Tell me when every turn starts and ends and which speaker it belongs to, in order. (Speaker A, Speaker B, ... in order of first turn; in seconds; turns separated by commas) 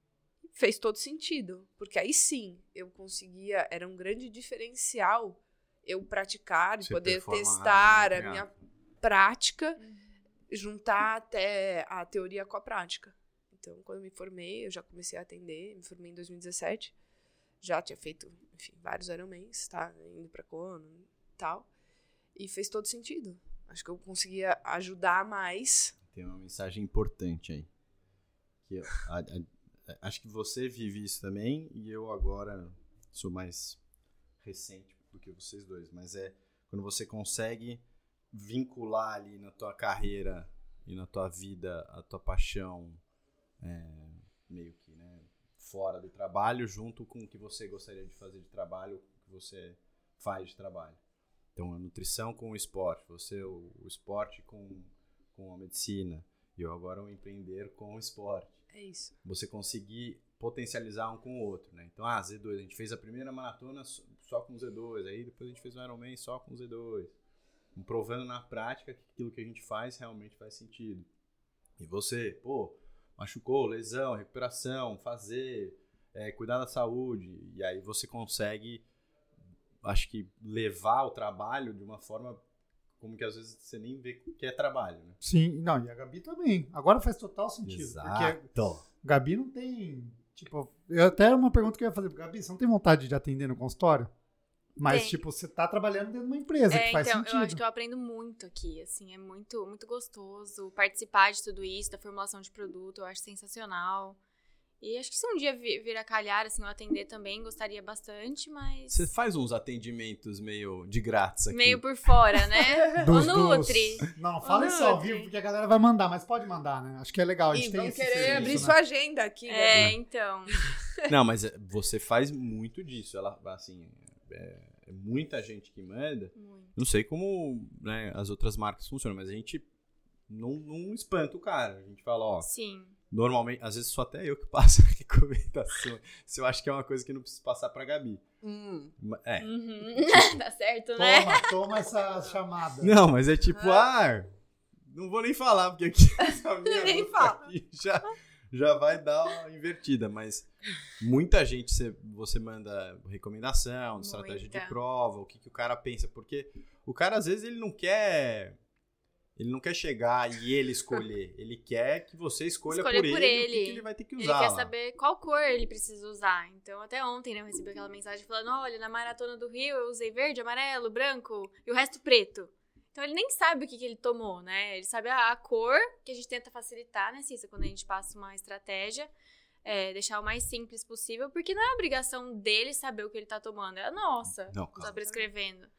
Speaker A: 0.5-9.8, Speaker B: 6.8-8.5, Speaker C: 9.8-10.1, Speaker A: 10.5-16.9, Speaker A: 17.6-21.7, Speaker A: 22.3-25.9, Speaker B: 26.1-27.7, Speaker B: 28.6-33.8, Speaker B: 34.4-37.8, Speaker B: 38.3-43.0, Speaker B: 43.6-51.0, Speaker B: 51.6-58.6, Speaker A: 58.7-59.1, Speaker B: 59.2-67.1, Speaker B: 67.8-71.1, Speaker B: 71.8-78.8, Speaker B: 79.8-82.4, Speaker B: 83.0-85.2, Speaker D: 85.2-94.1, Speaker B: 87.6-88.8, Speaker D: 94.8-97.6, Speaker C: 94.8-95.2, Speaker C: 96.7-104.2, Speaker C: 104.8-109.1, Speaker B: 108.9-113.0, Speaker C: 111.5-115.3, Speaker D: 113.0-118.8, Speaker A: 117.5-120.0, Speaker B: 118.2-118.7, Speaker C: 119.5-120.6, Speaker B: 121.1-129.7, Speaker C: 126.3-126.7, Speaker B: 130.3-132.5, Speaker C: 132.4-132.9, Speaker B: 133.1-138.2, Speaker A: 138.4-138.9, Speaker B: 139.0-140.4, Speaker C: 139.4-141.8, Speaker D: 141.0-142.9, Speaker B: 142.8-144.3, Speaker A: 143.5-143.9, Speaker B: 144.9-150.5, Speaker A: 146.7-147.5, Speaker B: 151.0-158.6, Speaker C: 154.0-154.8, Speaker B: 159.4-164.7, Speaker C: 162.7-179.1, Speaker C: 179.6-185.7, Speaker B: 184.5-184.9, Speaker A: 184.8-185.2